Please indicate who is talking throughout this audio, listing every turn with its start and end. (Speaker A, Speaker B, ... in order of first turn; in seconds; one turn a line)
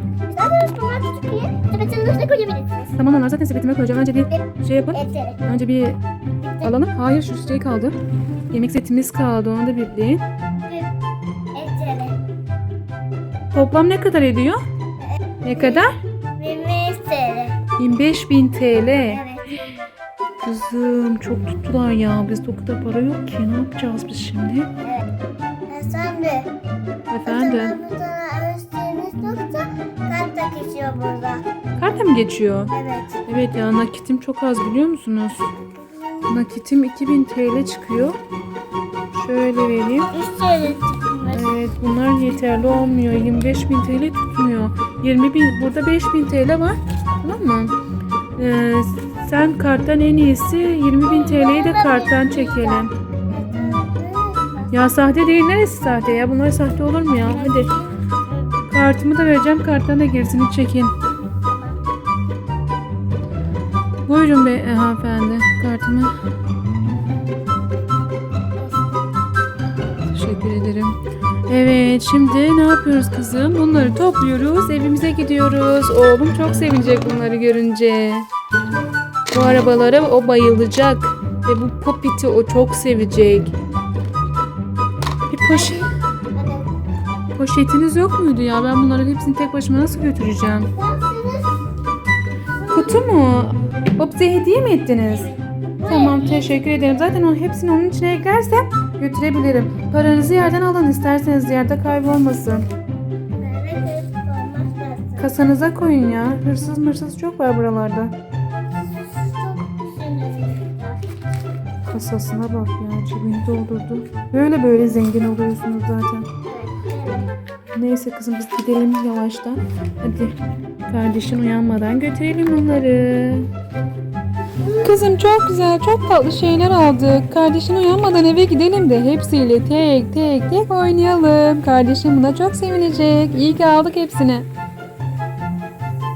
Speaker A: 0.3-3.0
Speaker B: 3.0-6.0
Speaker A: 4.3-5.5
Speaker A: 6.4-6.8
Speaker B: 6.6-7.9
Speaker B: 8.5-10.2
Speaker A: 10.6-10.9
Speaker A: 11.5-12.2
Speaker B: 13.5-14.6
Speaker A: 15.0-17.6
Speaker B: 15.4-15.9
Speaker B: 17.8-19.2
Speaker A: 19.1-19.5
Speaker B: 20.4-24.7
Speaker A: 24.8-25.1
Speaker A: 25.7-26.5
Speaker B: 27.1-27.8
Speaker A: 27.2-31.4
Speaker B: 31.8-32.7
Speaker A: 32.7-33.1
Speaker B: 33.2-35.5
Speaker A: 35.5-36.3
Speaker B: 36.3-38.2
Speaker B: 39.1-40.1
Speaker A: 40.1-41.6
Speaker B: 41.3-47.7
Speaker B: 48.4-52.9
Speaker A: 51.0-55.0
Speaker B: 54.7-57.7
Speaker A: 57.2-58.6
Speaker B: 58.7-60.9
Speaker A: 61.3-61.8
Speaker B: 64.1-66.1
Speaker A: 68.6-69.0
Speaker B: 70.1-70.9
Speaker B: 71.5-78.3
Speaker B: 79.3-83.5
Speaker B: 85.3-85.8
Speaker A: 85.5-86.7
Speaker B: 87.3-90.7
Speaker A: 90.7-91.6
Speaker A: 92.5-93.0
Speaker B: 92.7-95.3
Speaker A: 95.0-97.0
Speaker B: 95.8-102.6
Speaker A: 103.4-105.3
Speaker B: 105.2-108.1
Speaker A: 108.7-111.0
Speaker B: 111.8-116.3
Speaker A: 116.4-117.3
Speaker B: 117.7-123.5
Speaker A: 124.6-125.2
Speaker B: 124.8-134.4